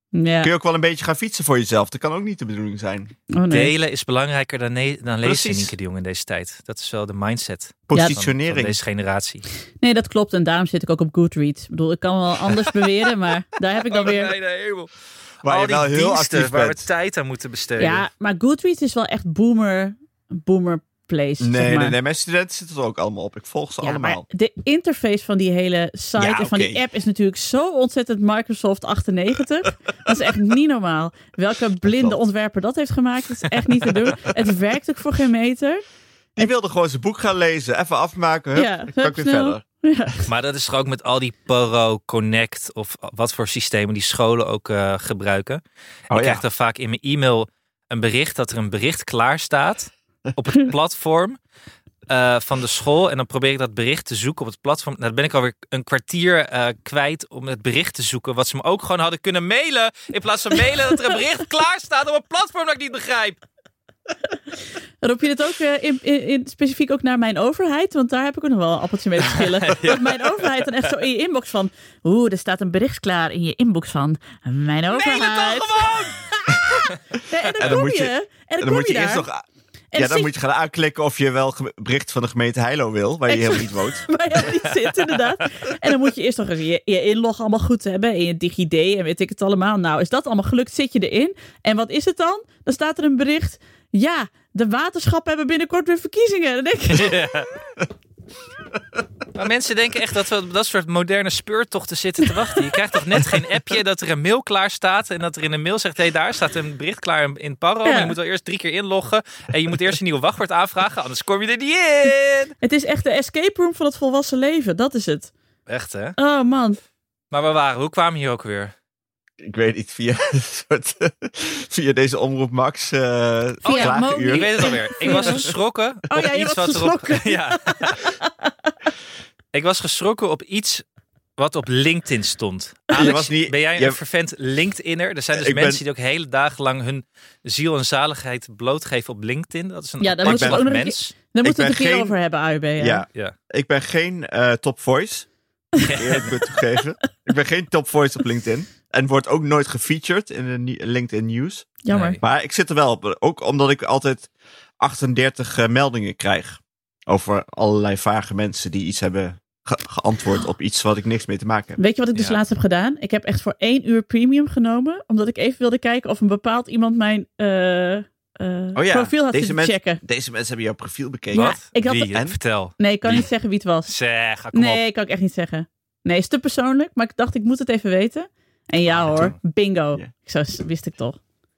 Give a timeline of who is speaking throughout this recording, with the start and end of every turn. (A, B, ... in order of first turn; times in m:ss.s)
0:00.1-0:00.5 A
0:00.4-0:03.1 B
0:03.3-0:03.7 A
0:03.5-0:09.4 C
0:05.2-0:05.7 B
0:07.9-0:08.8 B
0:09.8-0:14.3 A
0:13.9-0:14.9 C
0:15.4-0:18.0 C
0:15.4-0:16.8 B
0:17.8-0:22.0 A
0:21.4-0:24.2 B
0:23.8-0:35.8 A
0:26.2-0:26.8 B
0:31.8-0:32.2 B
0:33.9-0:34.3 B
0:36.4-0:39.6 B
0:38.6-0:40.2 A
0:40.3-0:51.4 C
0:46.1-0:46.4 B
0:52.1-1:03.4 C
1:05.0-1:19.3 A
1:09.6-1:10.1 C
1:14.9-1:16.2 C
1:17.6-1:19.4 B
1:19.9-1:20.3 A
1:20.0-1:24.0 B
1:23.3-1:37.1 A
1:36.9-1:37.5 C
1:39.3-1:52.5 C
1:47.8-1:48.1 A
1:52.6-1:55.3 A
1:55.7-1:56.2 C
1:56.2-1:56.8 A
1:57.3-1:58.7 C
1:59.4-2:05.5 B
2:03.6-2:05.4 A
2:03.7-2:08.0 C
2:06.1-2:08.0 A
2:09.5-2:10.8 C
2:11.4-2:21.2 C
2:12.9-2:14.0 B
2:15.3-2:15.8 B
2:20.0-2:23.0 A
2:20.2-2:20.7 B
2:21.4-2:22.1 B
2:22.8-2:25.3 B
2:25.8-2:26.3 C
2:25.9-2:41.8 B
2:31.8-2:32.2 A
2:31.9-2:32.2 C
2:41.8-2:50.0 A
2:48.7-2:51.6 B
2:51.3-2:53.2 C
2:51.3-2:52.2 A
2:52.8-2:53.9 A
2:53.8-2:54.8 C
2:54.5-3:01.2 A